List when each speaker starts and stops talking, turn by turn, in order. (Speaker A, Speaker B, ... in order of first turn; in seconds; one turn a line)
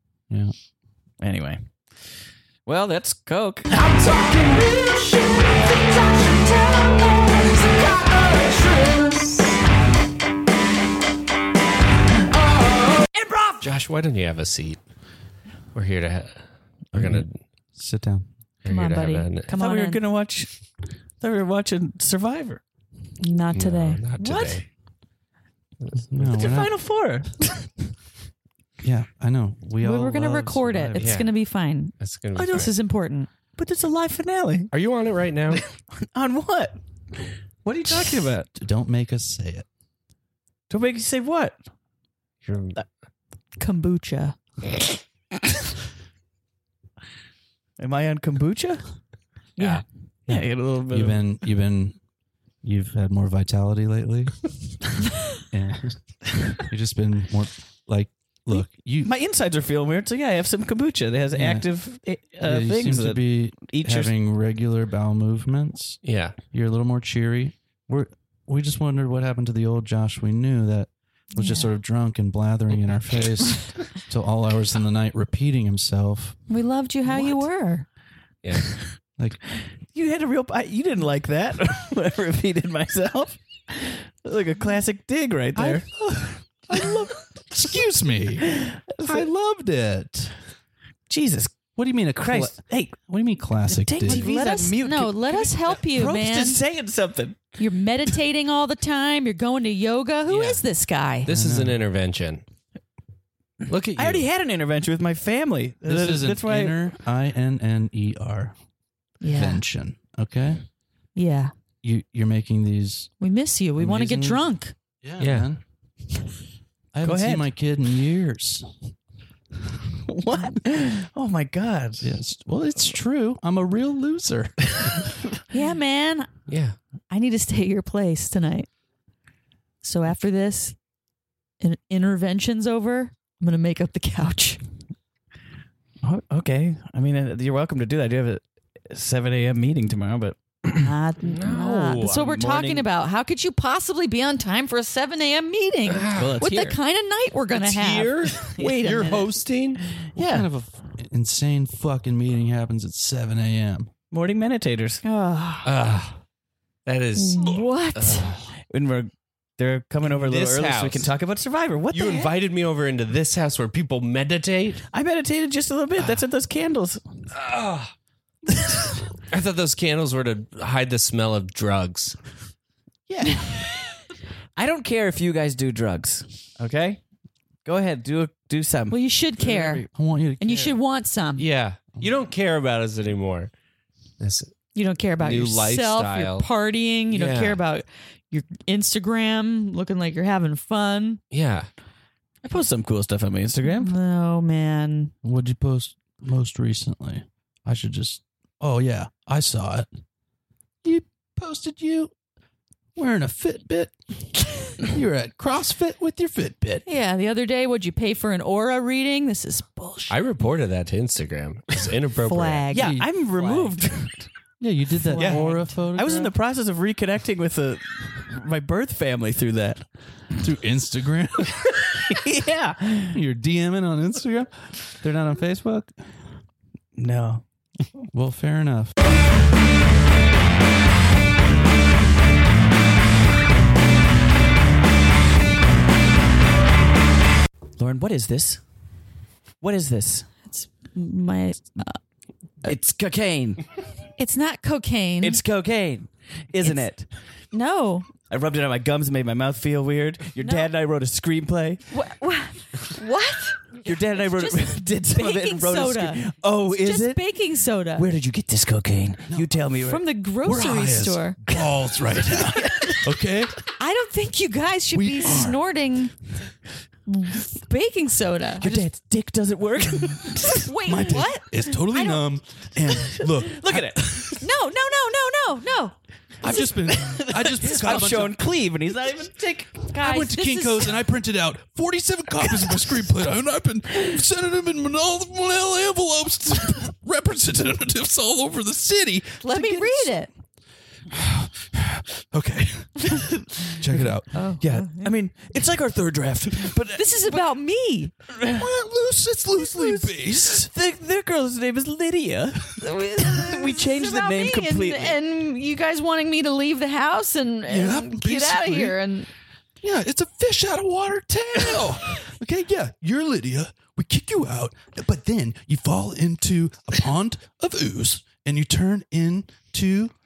Speaker A: 1.2-1.9
Speaker A: 2.6-3.7
Speaker B: 3.7-9.5
Speaker B: 12.3-13.6
Speaker C: 13.6-14.8
Speaker C: 15.7-17.4
Speaker D: 16.9-18.3
Speaker C: 18.6-19.5
Speaker E: 18.6-20.0
Speaker A: 19.5-22.6
Speaker E: 23.2-24.6
Speaker C: 23.5-24.7
Speaker D: 26.0-26.7
Speaker A: 26.2-27.7
Speaker D: 28.8-31.2
Speaker E: 29.8-33.3
Speaker C: 31.0-31.3
Speaker C: 32.0-32.7
Speaker A: 33.5-34.7
Speaker C: 34.7-35.6
Speaker A: 35.5-38.4
Speaker D: 37.7-39.7
Speaker A: 40.7-41.6
Speaker C: 42.4-42.8
Speaker E: 43.6-44.4
Speaker A: 47.8-48.8
Speaker E: 49.6-49.8
Speaker C: 49.6-50.4
Speaker A: 50.3-51.2
Speaker D: 50.9-52.0
Speaker D: 52.6-54.4
Speaker D: 55.5-59.1
Speaker A: 58.5-64.1
Speaker D: 61.3-61.7
Speaker D: 62.4-76.4
Speaker C: 66.0-66.4
Speaker E: 71.3-71.7
Speaker E: 76.5-77.9
Speaker A: 79.9-87.7
Speaker D: 85.6-85.9
Speaker D: 86.7-88.5
Speaker A: 88.4-89.3
Speaker D: 89.0-90.3
Speaker A: 91.1-93.0
Speaker D: 91.8-94.3
Speaker A: 93.7-97.5
Speaker E: 94.1-96.6
Speaker E: 97.6-101.3
Speaker C: 100.3-100.6
Speaker C: 101.3-102.4
Speaker D: 101.3-101.8
Speaker C: 103.7-104.3
Speaker A: 104.0-106.9
Speaker D: 105.8-108.5
Speaker E: 109.2-109.6
Speaker D: 109.3-110.6
Speaker E: 111.2-111.5
Speaker D: 111.8-113.1
Speaker E: 113.2-114.8
Speaker D: 113.8-114.5
Speaker D: 115.0-115.6
Speaker C: 115.2-115.5
Speaker D: 116.9-118.7
Speaker A: 117.0-117.5
Speaker A: 120.1-122.2
Speaker D: 122.0-125.1
Speaker E: 125.5-126.3
Speaker C: 126.5-126.8
Speaker E: 127.1-128.7
Speaker E: 129.8-130.8
Speaker E: 131.6-134.6
Speaker A: 136.0-140.9
Speaker E: 140.8-149.3
Speaker C: 141.2-142.2
Speaker A: 142.0-142.8
Speaker C: 145.9-146.6
Speaker A: 146.1-146.8
Speaker C: 147.5-149.8
Speaker D: 148.7-149.4
Speaker A: 150.2-150.5
Speaker D: 150.2-153.9
Speaker A: 154.1-155.0
Speaker E: 155.0-155.7
Speaker C: 155.7-156.2
Speaker C: 156.8-158.4
Speaker E: 157.2-158.3
Speaker A: 158.7-162.3
Speaker C: 160.1-161.1
Speaker C: 161.9-164.8
Speaker A: 164.9-167.2
Speaker C: 167.3-167.9
Speaker A: 168.5-168.9
Speaker C: 169.3-172.2
Speaker A: 173.1-173.6
Speaker E: 173.2-173.6
Speaker A: 174.6-177.0
Speaker A: 177.7-179.0
Speaker E: 178.9-179.8
Speaker D: 179.4-180.7
Speaker E: 180.4-181.5
Speaker C: 181.4-183.5
Speaker C: 184.2-184.6
Speaker E: 184.7-191.2
Speaker C: 185.2-186.5
Speaker C: 187.1-187.6
Speaker C: 191.3-191.7
Speaker A: 192.4-193.9
Speaker E: 193.6-195.1
Speaker D: 195.2-199.9
Speaker D: 200.8-202.1
Speaker D: 203.0-206.8
Speaker E: 206.9-210.2
Speaker C: 210.1-212.7
Speaker E: 212.2-213.6
Speaker A: 212.7-214.3
Speaker D: 212.7-213.1
Speaker D: 214.6-216.3
Speaker E: 215.1-215.8
Speaker A: 215.1-219.8
Speaker D: 220.4-221.8
Speaker A: 221.9-223.2
Speaker D: 223.1-226.1
Speaker A: 227.0-227.4
Speaker D: 228.1-228.9
Speaker A: 237.8-238.6
Speaker A: 239.6-240.3
Speaker E: 240.5-242.0
Speaker A: 242.6-243.7
Speaker E: 244.2-245.4
Speaker A: 245.2-247.1
Speaker E: 246.6-246.9
Speaker E: 247.5-248.1
Speaker A: 248.3-251.9
Speaker E: 250.4-250.7
Speaker E: 251.9-258.1
Speaker A: 253.8-257.3
Speaker A: 257.9-260.1
Speaker D: 259.3-259.6
Speaker E: 259.8-261.4
Speaker D: 260.4-263.6
Speaker A: 261.5-263.1
Speaker E: 262.7-263.0
Speaker E: 263.8-266.1
Speaker D: 264.9-265.6
Speaker E: 267.1-268.9
Speaker A: 268.6-270.7
Speaker E: 270.5-272.3
Speaker D: 270.9-274.4
Speaker A: 272.9-274.4
Speaker E: 274.4-276.7
Speaker D: 276.4-278.4
Speaker A: 276.5-279.9
Speaker E: 279.9-281.0
Speaker D: 280.0-290.1
Speaker A: 282.5-283.0
Speaker E: 289.4-290.3
Speaker D: 291.1-294.8
Speaker A: 293.7-294.0
Speaker E: 294.3-295.1
Speaker A: 294.6-297.4
Speaker E: 296.9-298.1
Speaker A: 298.3-298.7
Speaker D: 298.4-300.7
Speaker A: 299.7-305.2
Speaker E: 302.8-309.3
Speaker D: 307.7-309.0
Speaker D: 309.8-320.1